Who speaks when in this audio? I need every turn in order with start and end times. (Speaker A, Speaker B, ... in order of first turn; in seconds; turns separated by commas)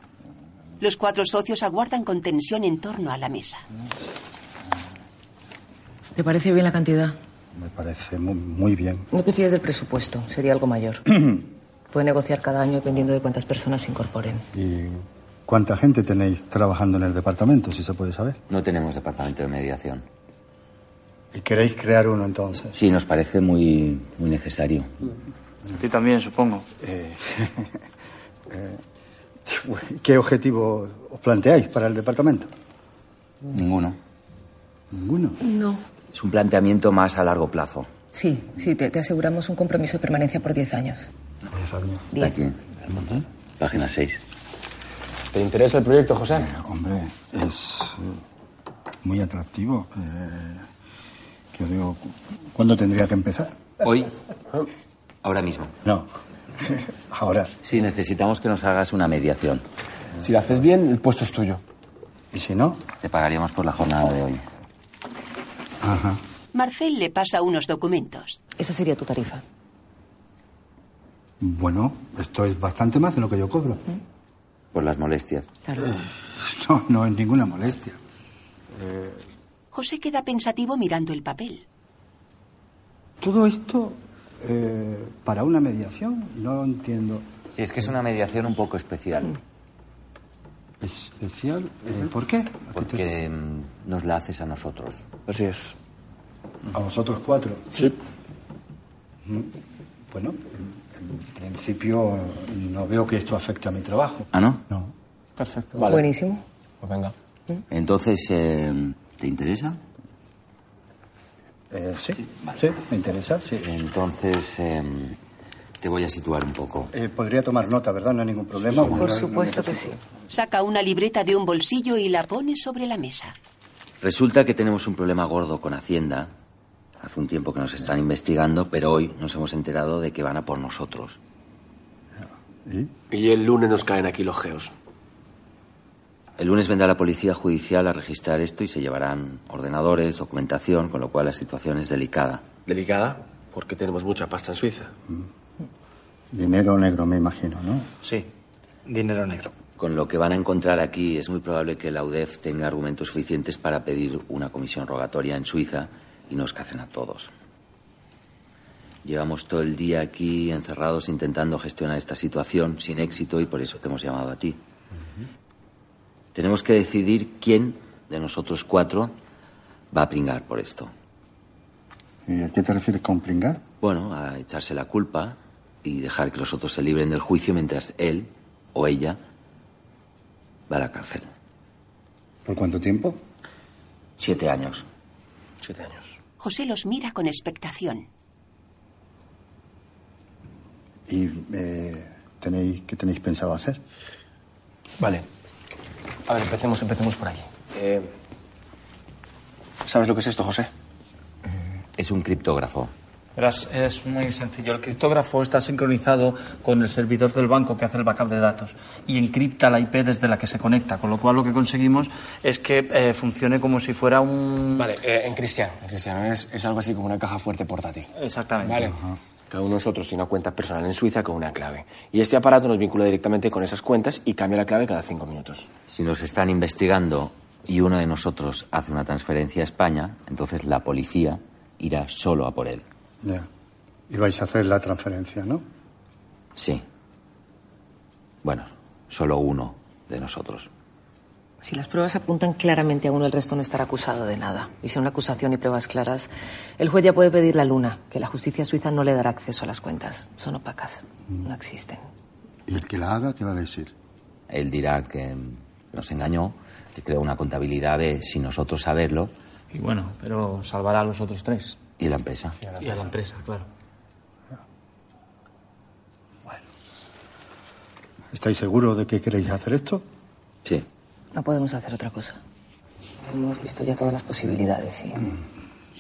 Speaker A: 0.8-3.6, Speaker B: 6.1-7.2, Speaker C: 7.5-9.1, Speaker B: 9.1-11.0, Speaker B: 11.9-14.4, Speaker C: 14.5-18.4, Speaker D: 18.5-20.0, Speaker C: 21.3-22.8, Speaker D: 22.8-24.9, Speaker E: 25.7-26.7, Speaker C: 26.8-27.8, Speaker C: 28.5-28.8, Speaker C: 29.4-32.5, Speaker D: 33.5-34.0, Speaker C: 34.9-35.4, Speaker B: 35.4-35.8, Speaker D: 36.1-37.9, Speaker B: 38.1-41.1, Speaker C: 41.5-42.1, Speaker B: 42.1-42.4, Speaker D: 42.2-42.6, Speaker C: 42.9-43.2, Speaker D: 43.6-44.2, Speaker F: 45.3-46.4, Speaker C: 46.4-48.2, Speaker C: 49.0-50.6, Speaker C: 51.5-53.6, Speaker D: 53.8-54.1, Speaker D: 55.2-55.8, Speaker C: 55.8-56.1, Speaker C: 56.6-57.5, Speaker D: 57.6-59.6, Speaker F: 60.2-61.6, Speaker C: 62.3-62.8, Speaker D: 63.0-64.4, Speaker C: 65.8-66.2, Speaker A: 66.5-68.4, Speaker B: 68.6-69.4, Speaker C: 71.4-73.8, Speaker D: 74.7-75.5, Speaker B: 75.7-75.9, Speaker C: 75.8-78.0, Speaker C: 78.7-79.2, Speaker A: 79.7-81.6, Speaker C: 83.2-87.3, Speaker D: 87.5-89.3, Speaker C: 90.8-93.0, Speaker D: 92.8-95.0, Speaker F: 95.3-95.7, Speaker C: 96.7-97.9, Speaker C: 99.2-99.5, Speaker C: 100.1-104.9, Speaker D: 104.3-104.6, Speaker E: 105.4-105.8, Speaker B: 105.8-106.4, Speaker F: 106.8-107.1, Speaker D: 107.7-109.8, Speaker C: 111.7-113.7, Speaker D: 113.6-115.2, Speaker D: 115.8-116.9, Speaker C: 116.9-120.0, Speaker B: 118.9-120.0, Speaker A: 120.3-123.3, Speaker D: 124.0-126.3, Speaker D: 127.0-131.2, Speaker C: 132.2-132.9, Speaker F: 133.1-134.7, Speaker D: 136.4-142.4, Speaker F: 142.7-144.9, Speaker C: 146.3-147.9, Speaker E: 148.8-149.5, Speaker D: 149.8-157.3, Speaker D: 159.0-164.6, Speaker D: 166.3-169.1, Speaker D: 169.9-170.9, Speaker C: 172.3-173.6, Speaker D: 173.8-179.2, Speaker D: 180.7-181.3, Speaker C: 182.4-183.2, Speaker D: 184.2-184.8, Speaker F: 185.6-186.1, Speaker A: 186.4-188.1, Speaker C: 191.1-193.8, Speaker F: 195.0-195.2, Speaker F: 196.3-198.1, Speaker F: 199.8-200.7, Speaker D: 202.0-202.9, Speaker E: 203.3-214.9, Speaker F: 214.8-218.0, Speaker E: 218.1-218.9, Speaker F: 218.7-218.9, Speaker F: 219.5-225.7, Speaker D: 225.9-232.8, Speaker C: 233.2-233.5, Speaker C: 234.1-235.6, Speaker D: 236.6-236.8, Speaker D: 238.4-240.7, Speaker B: 241.6-252.0, Speaker C: 252.7-253.9, Speaker D: 254.5-259.3, Speaker E: 259.7-261.8, Speaker D: 262.0-262.6, Speaker E: 262.8-263.7, Speaker C: 268.3-270.0, Speaker B: 271.3-272.4, Speaker B: 273.3-275.2